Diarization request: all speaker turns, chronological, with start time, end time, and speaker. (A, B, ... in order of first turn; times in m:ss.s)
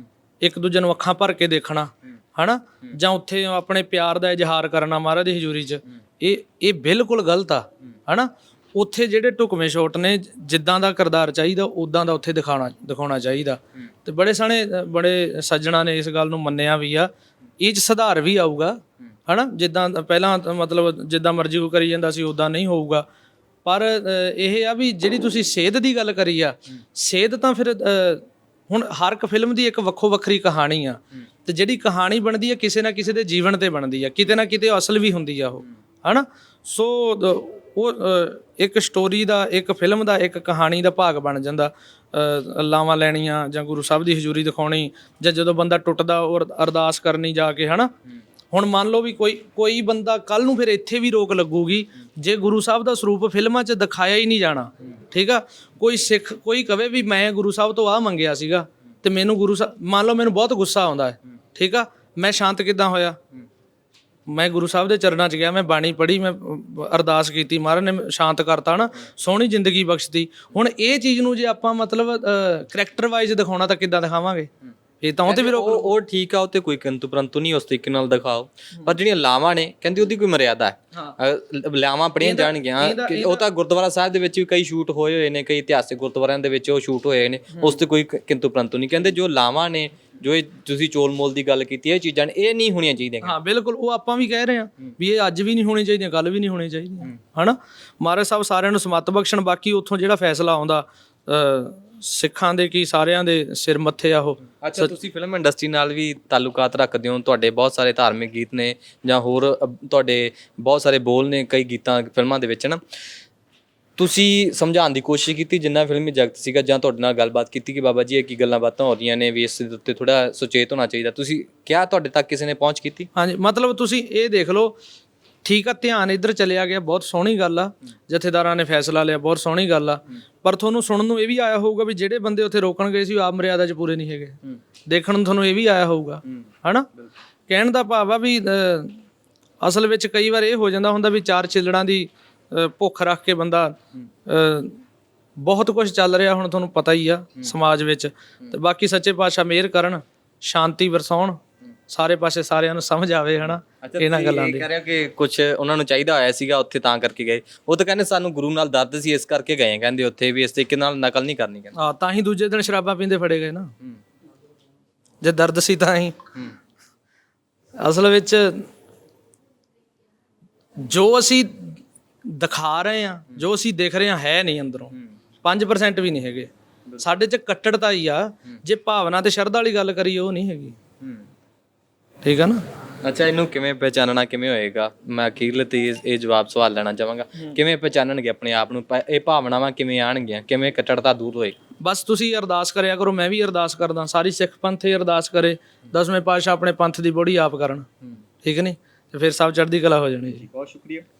0:00.4-0:23.1 A
0:23.6-0:47.9 A
0:48.5-1:03.2 A
1:04.3-1:14.5 A
1:15.0-1:15.9 A
1:15.3-1:33.4 B
1:22.2-1:23.4 A
1:33.2-1:44.9 A
1:44.6-1:52.8 B
1:54.0-2:03.1 B
2:03.1-2:04.8 A
2:05.4-2:16.9 A
2:17.5-2:19.0 A
2:19.6-2:24.8 A
2:25.4-2:34.7 A
2:33.8-2:41.8 B
2:41.8-2:43.7 A
2:45.2-2:46.2 A
2:47.8-2:48.7 A
2:50.8-2:54.9 A
2:55.4-3:00.8 A
3:01.0-3:01.3 B
3:02.2-3:02.6 A
3:03.0-3:11.6 B
3:11.8-3:17.9 A
3:18.4-3:20.5 A
3:20.4-3:21.0 B